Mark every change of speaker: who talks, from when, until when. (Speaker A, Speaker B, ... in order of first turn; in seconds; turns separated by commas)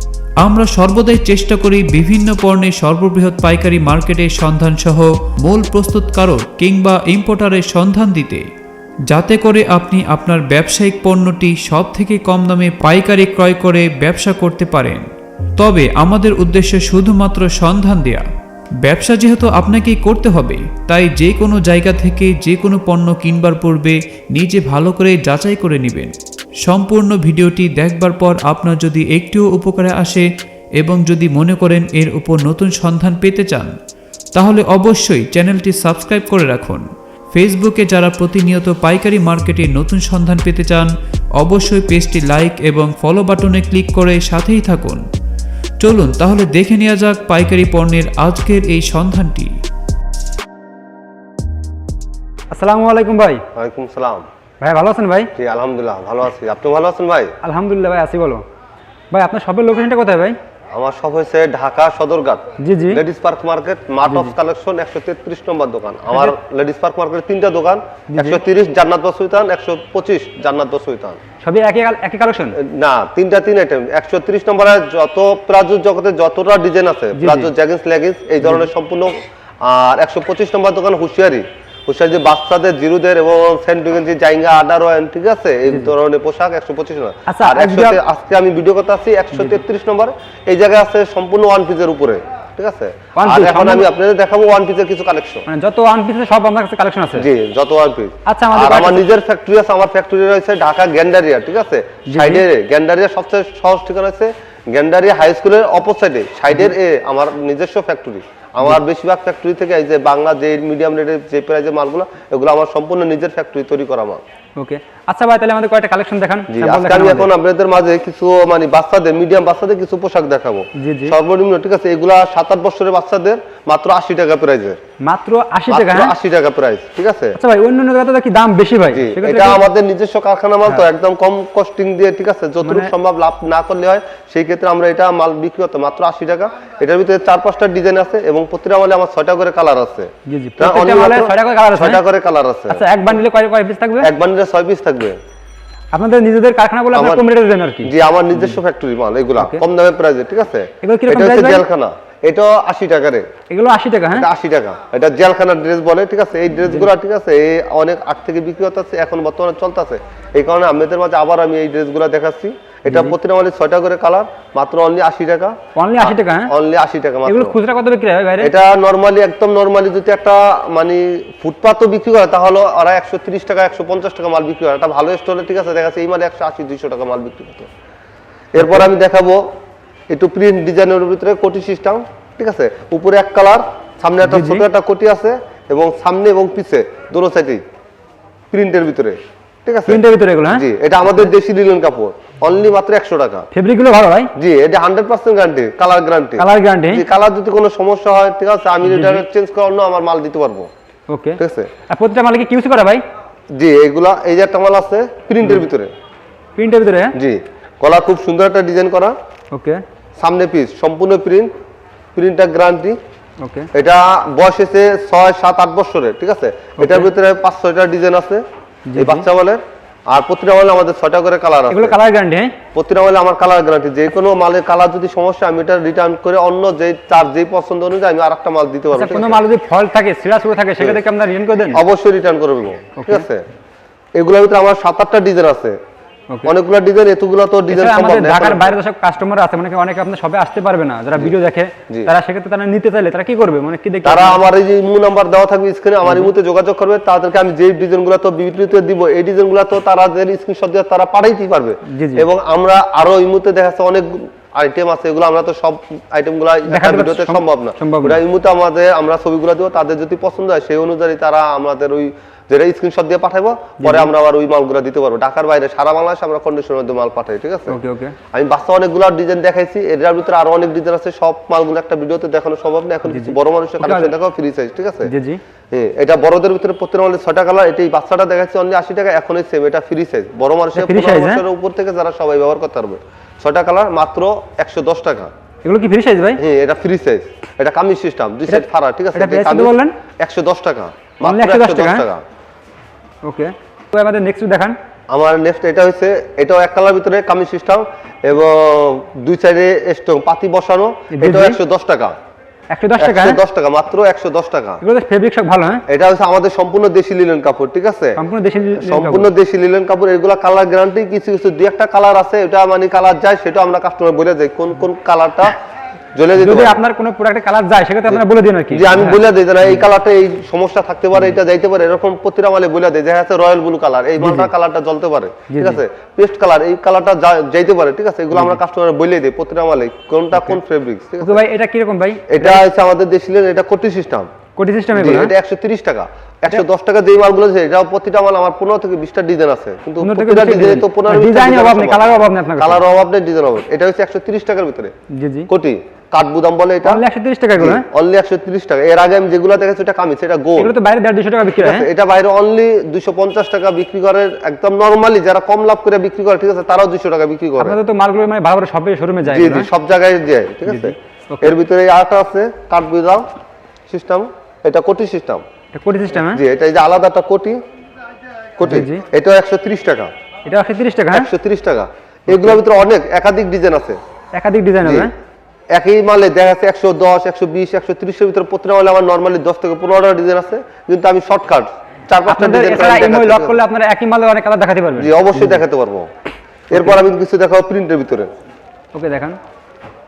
Speaker A: 0.4-8.4, Speaker A: 9.1-15.1, Speaker A: 15.6-18.2, Speaker A: 18.8-30.2, Speaker A: 30.8-33.7, Speaker A: 34.4-45.0, Speaker A: 45.8-49.5, Speaker B: 52.5-53.4, Speaker C: 53.5-54.2, Speaker B: 54.6-55.3, Speaker C: 55.4-57.3, Speaker B: 57.4-58.4, Speaker B: 59.1-60.4, Speaker C: 60.7-71.2, Speaker B: 62.6-63.0, Speaker B: 64.1-64.3, Speaker B: 68.1-68.4, Speaker B: 71.4-72.6, Speaker C: 72.6-95.5, Speaker B: 77.2-77.5, Speaker B: 87.3-88.0, Speaker B: 89.3-89.6, Speaker B: 93.2-93.9, Speaker B: 95.5-97.3, Speaker C: 97.2-114.2, Speaker B: 98.3-99.0, Speaker B: 102.1-102.4, Speaker B: 114.6-117.3, Speaker C: 116.5-124.8, Speaker B: 120.8-121.2, Speaker B: 125.0-126.1, Speaker C: 125.7-127.3, Speaker B: 127.4-129.6, Speaker C: 128.9-143.2, Speaker B: 132.6-132.9, Speaker B: 140.3-142.0, Speaker B: 142.7-144.1, Speaker C: 144.0-145.2, Speaker B: 145.9-148.5, Speaker C: 146.9-147.2, Speaker C: 147.8-153.2, Speaker B: 150.8-151.6, Speaker B: 153.5-154.3, Speaker C: 154.2-167.6, Speaker B: 162.9-163.2, Speaker B: 165.8-166.5, Speaker B: 167.3-168.5, Speaker C: 168.4-177.7, Speaker C: 178.5-179.4, Speaker C: 180.1-187.6, Speaker B: 184.2-184.6, Speaker C: 188.5-193.5, Speaker B: 189.9-191.3, Speaker B: 193.5-194.3, Speaker C: 194.4-200.7, Speaker B: 196.4-197.1, Speaker B: 198.8-199.2, Speaker B: 201.1-203.0, Speaker C: 201.4-201.7, Speaker C: 203.5-205.9, Speaker B: 206.6-207.2, Speaker C: 207.2-209.2, Speaker B: 209.5-209.8, Speaker C: 210.2-211.5, Speaker C: 212.2-213.0, Speaker B: 213.4-213.7, Speaker C: 213.7-218.4, Speaker B: 216.8-217.1, Speaker B: 218.9-219.3, Speaker C: 219.0-222.0, Speaker B: 221.7-222.5, Speaker C: 222.8-229.4, Speaker B: 228.9-231.8, Speaker C: 231.7-233.4, Speaker B: 233.0-233.2, Speaker C: 234.2-235.8, Speaker C: 236.4-238.8, Speaker B: 237.7-244.4, Speaker C: 244.1-267.8, Speaker B: 251.9-252.3, Speaker B: 256.7-258.2, Speaker B: 263.8-264.1, Speaker B: 267.7-268.1, Speaker C: 268.3-275.1, Speaker B: 273.1-274.1, Speaker B: 275.1-275.4, Speaker C: 275.7-285.3, Speaker B: 280.8-281.4, Speaker B: 285.6-286.4, Speaker C: 286.4-292.2, Speaker B: 288.5-289.9, Speaker B: 291.2-292.1, Speaker B: 293.2-294.8, Speaker C: 295.1-302.1, Speaker B: 301.1-301.6, Speaker B: 302.7-303.4, Speaker C: 303.0-304.8, Speaker B: 304.8-305.8, Speaker C: 305.9-308.2, Speaker B: 308.2-309.3, Speaker C: 308.8-315.6, Speaker C: 316.1-316.8, Speaker B: 316.4-319.8, Speaker C: 318.1-331.4, Speaker B: 324.2-324.5, Speaker B: 325.5-325.8, Speaker B: 331.2-332.6, Speaker C: 332.3-334.3, Speaker B: 334.6-335.3, Speaker C: 334.9-344.9, Speaker B: 340.0-342.8, Speaker B: 345.1-345.5, Speaker C: 345.5-347.0, Speaker B: 346.9-347.9, Speaker C: 347.6-350.7, Speaker B: 350.6-351.9, Speaker C: 351.5-357.8, Speaker B: 357.6-359.7, Speaker C: 359.3-363.2, Speaker B: 360.7-361.6, Speaker C: 363.9-365.4, Speaker B: 365.7-366.4, Speaker C: 366.1-367.6, Speaker C: 368.6-370.1, Speaker B: 368.6-369.0, Speaker B: 370.5-371.3, Speaker C: 371.1-374.0, Speaker B: 372.3-372.6, Speaker B: 374.3-375.1, Speaker C: 374.8-375.1, Speaker C: 375.7-383.6, Speaker B: 382.3-385.6, Speaker C: 385.0-386.1, Speaker C: 386.7-388.3, Speaker B: 386.7-387.0, Speaker B: 388.9-389.4